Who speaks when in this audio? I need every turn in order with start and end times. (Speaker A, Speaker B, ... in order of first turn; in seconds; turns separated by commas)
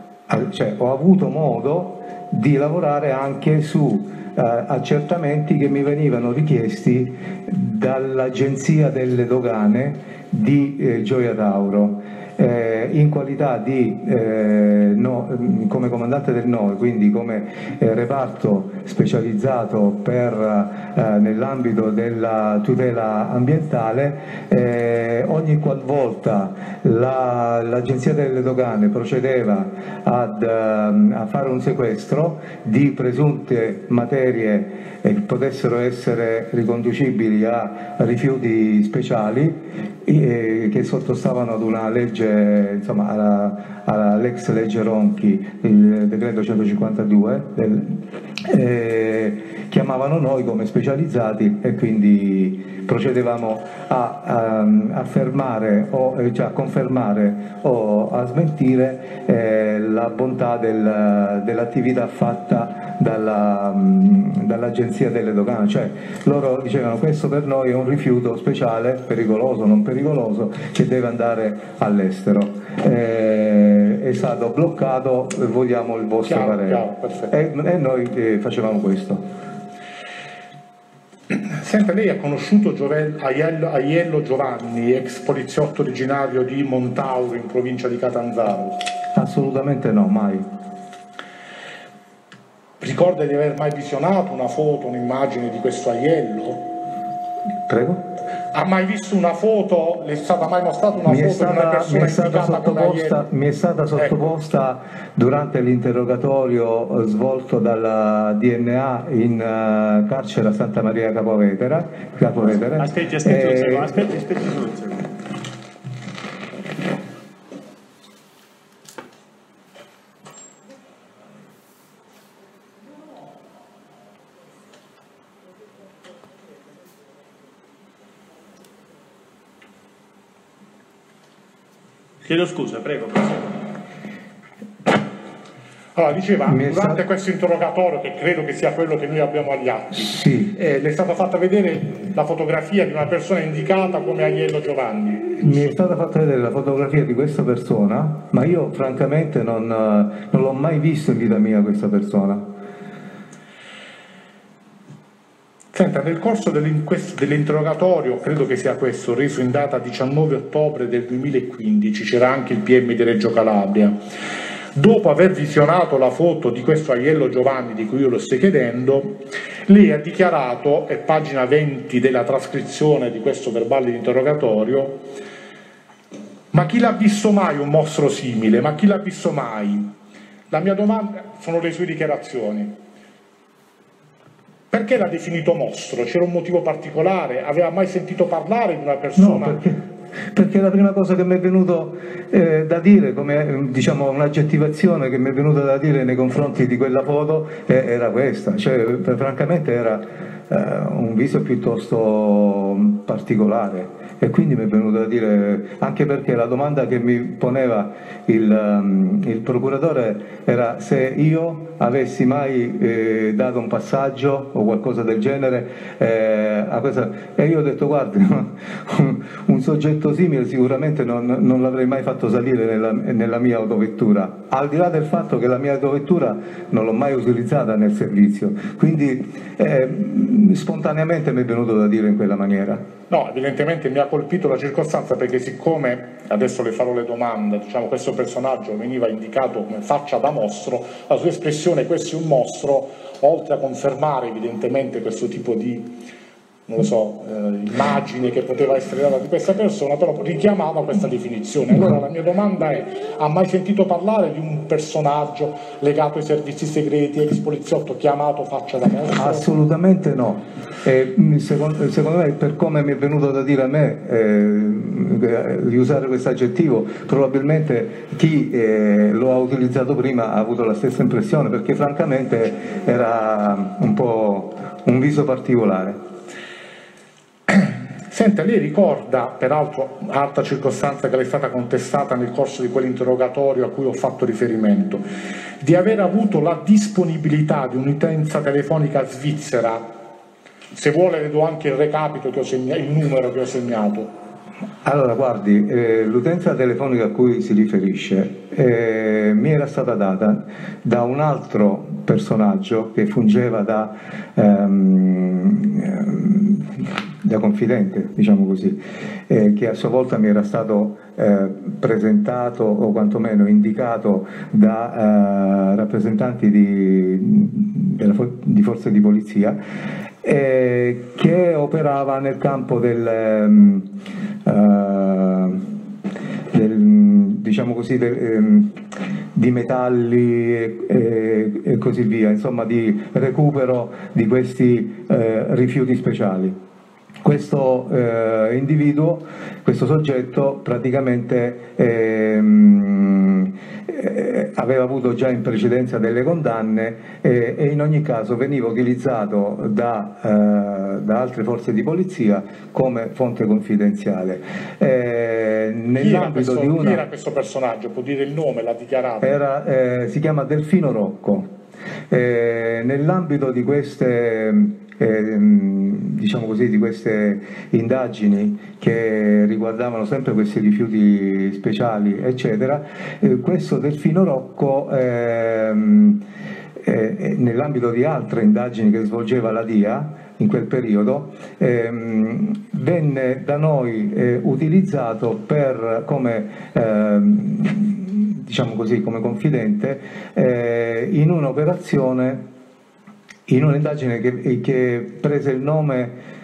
Speaker A: 0.3-79.2, Speaker B: 76.2-77.3, Speaker B: 81.3-88.8, Speaker A: 89.1-90.5, Speaker B: 92.8-96.7, Speaker A: 97.7-98.0, Speaker B: 98.5-103.2, Speaker A: 101.1-114.0, Speaker C: 112.8-115.1, Speaker C: 132.2-133.6, Speaker B: 135.9-145.8, Speaker A: 136.5-137.0, Speaker A: 140.1-140.5, Speaker A: 145.4-152.4, Speaker B: 155.7-164.0, Speaker B: 164.8-175.1, Speaker B: 176.5-179.9, Speaker B: 180.5-182.7, Speaker B: 184.7-189.6, Speaker A: 189.2-189.8, Speaker A: 190.3-232.8, Speaker B: 233.1-246.0, Speaker B: 246.7-259.5, Speaker A: 259.1-276.0, Speaker B: 277.5-285.0, Speaker B: 285.6-289.9, Speaker B: 290.7-294.1, Speaker A: 294.8-319.6, Speaker A: 320.2-323.9, Speaker A: 324.4-325.7, Speaker A: 326.5-336.5, Speaker A: 337.2-357.0, Speaker B: 356.0-359.4, Speaker A: 359.2-361.5, Speaker A: 362.1-376.2, Speaker A: 376.8-392.4, Speaker A: 393.5-396.1